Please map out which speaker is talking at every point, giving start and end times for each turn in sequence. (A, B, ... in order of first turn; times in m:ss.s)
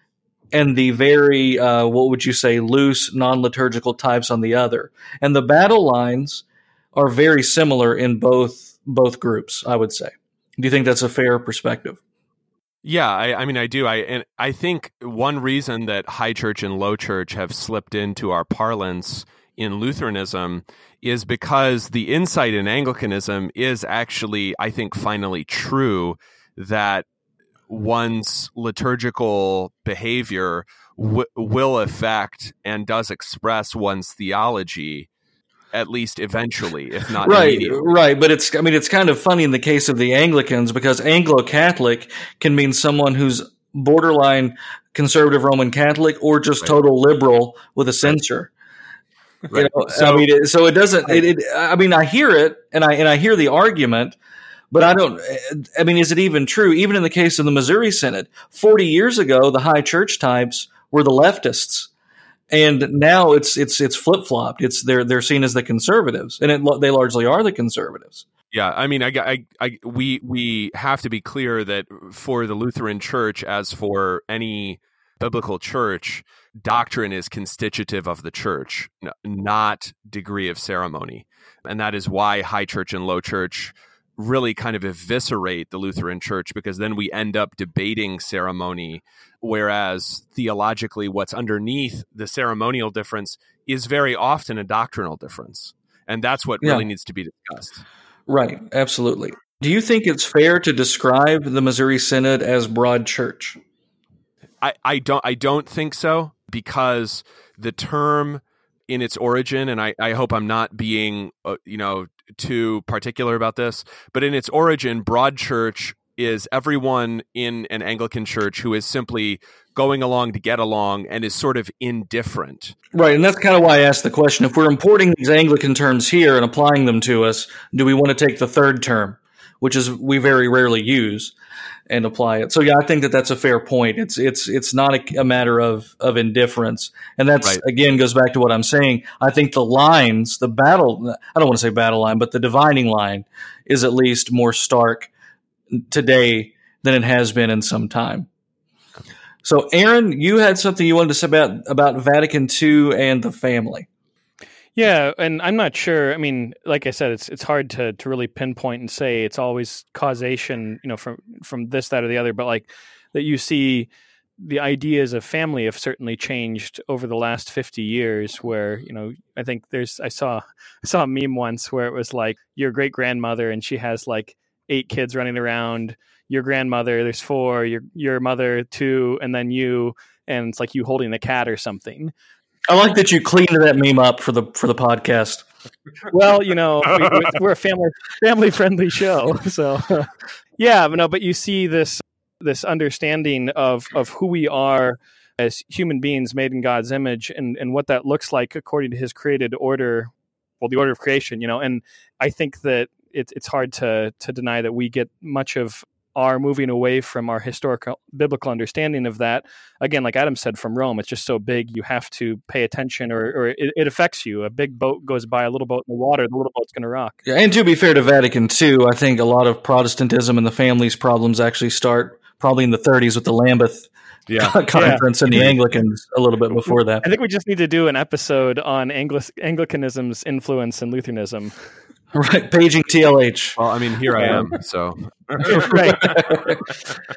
0:00.5-0:12.0 A
0:12.8-0:27.1 B
0:27.7-0:35.1 B
0:35.7-0:37.9 B
0:37.2-0:48.5 A
0:49.5-0:50.3 B
0:49.5-0:54.2 A
0:54.7-1:01.9 A
1:02.5-1:08.3 A
1:08.5-1:37.8 B
1:36.6-1:36.9 A
1:38.3-1:43.6 A
1:44.6-2:02.8 B
2:02.9-2:11.3 A
2:11.9-2:25.1 A
2:25.7-2:28.3 A
2:29.4-2:33.9 A
2:34.8-3:02.1 C
3:02.7-3:05.4 A
3:06.1-3:37.2 C
3:37.3-3:47.0 A
3:44.3-3:45.5 B
3:44.7-3:45.0 C
3:47.0-3:51.6 C
3:52.1-3:53.6 A
3:53.6-3:55.6 B
3:54.2-3:54.5 A
3:55.4-3:56.7 A
3:55.4-3:56.2 C